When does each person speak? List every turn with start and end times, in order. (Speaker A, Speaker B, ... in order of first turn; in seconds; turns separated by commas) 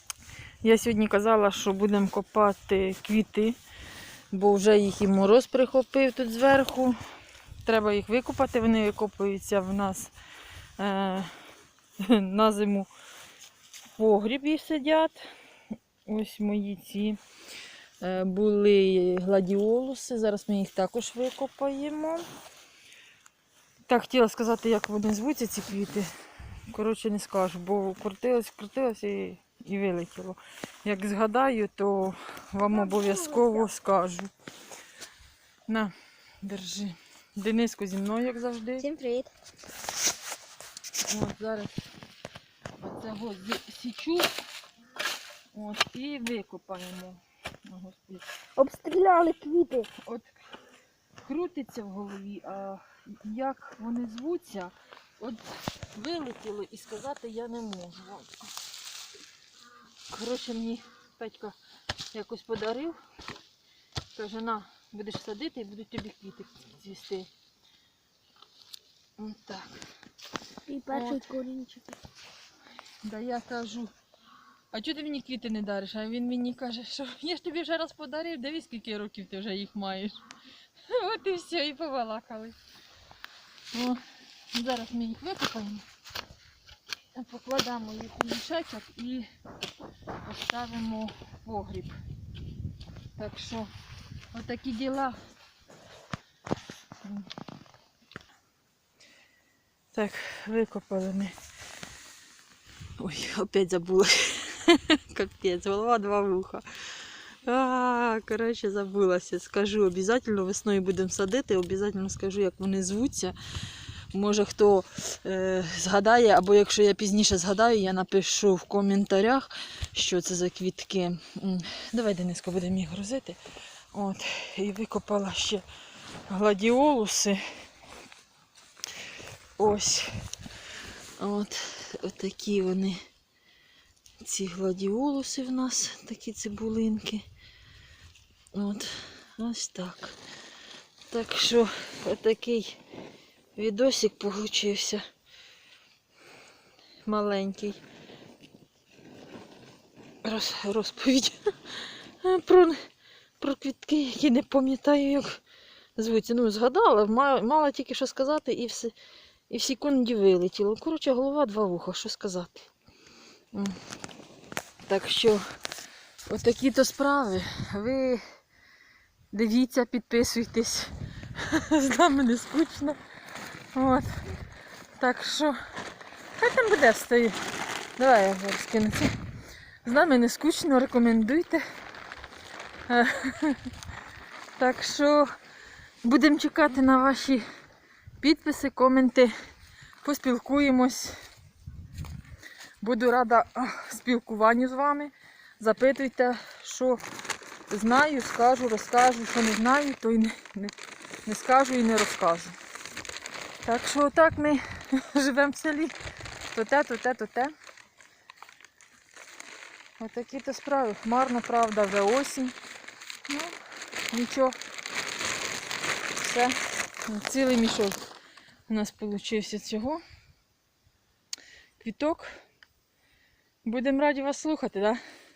Speaker A: 0.6-3.6, Speaker A: 4.3-7.0, Speaker A: 7.6-10.1, Speaker A: 10.8-11.3, Speaker A: 12.0-12.9, Speaker A: 13.9-15.3, Speaker A: 16.1-17.2, Speaker A: 18.0-22.2, Speaker A: 23.9-26.1, Speaker A: 26.7-34.3, Speaker B: 32.7-33.7, Speaker A: 35.7-38.9, Speaker B: 38.8-39.3, Speaker A: 41.1-41.8, Speaker A: 42.8-44.3, Speaker A: 45.5-48.2, Speaker B: 48.6-49.9, Speaker A: 50.0-50.3, Speaker A: 51.2-58.4, Speaker A: 60.1-61.6, Speaker A: 62.1-63.0, Speaker A: 64.1-67.3, Speaker A: 69.2-69.8, Speaker B: 70.7-72.0, Speaker A: 70.9-71.2, Speaker A: 73.0-73.9, Speaker A: 74.7-80.2, Speaker A: 80.9-82.6, Speaker A: 83.7-85.8, Speaker A: 87.1-89.3, Speaker A: 90.2-92.0, Speaker A: 93.2-93.7, Speaker A: 94.3-95.2, Speaker A: 99.9-101.3, Speaker A: 103.0-106.6, Speaker A: 107.4-113.3, Speaker A: 114.1-123.4, Speaker A: 123.9-125.6, Speaker A: 126.3-127.4, Speaker A: 129.6-130.1, Speaker A: 131.2-133.0, Speaker A: 134.2-137.2, Speaker A: 138.5-140.2, Speaker A: 141.1-142.8, Speaker A: 143.6-145.0, Speaker A: 147.0-147.8, Speaker A: 150.2-152.8, Speaker A: 153.4-155.4, Speaker A: 156.0-158.9, Speaker A: 159.5-162.7, Speaker A: 163.5-163.8, Speaker A: 164.8-165.4, Speaker A: 166.2-168.2, Speaker A: 169.3-173.0, Speaker A: 173.7-174.2, Speaker A: 175.0-175.6, Speaker A: 176.4-177.4, Speaker A: 178.0-179.1, Speaker A: 179.8-181.6, Speaker A: 182.9-183.7, Speaker A: 184.6-185.3, Speaker A: 186.0-187.4, Speaker A: 188.2-189.3, Speaker A: 190.0-191.2, Speaker A: 192.8-197.0, Speaker A: 197.7-200.7, Speaker A: 201.2-202.6, Speaker A: 203.6-205.9, Speaker A: 206.5-207.5, Speaker A: 210.0-212.6, Speaker A: 213.3-213.6, Speaker A: 214.1-214.6, Speaker A: 216.2-218.0, Speaker A: 218.7-220.0, Speaker A: 221.8-222.3, Speaker A: 223.6-225.0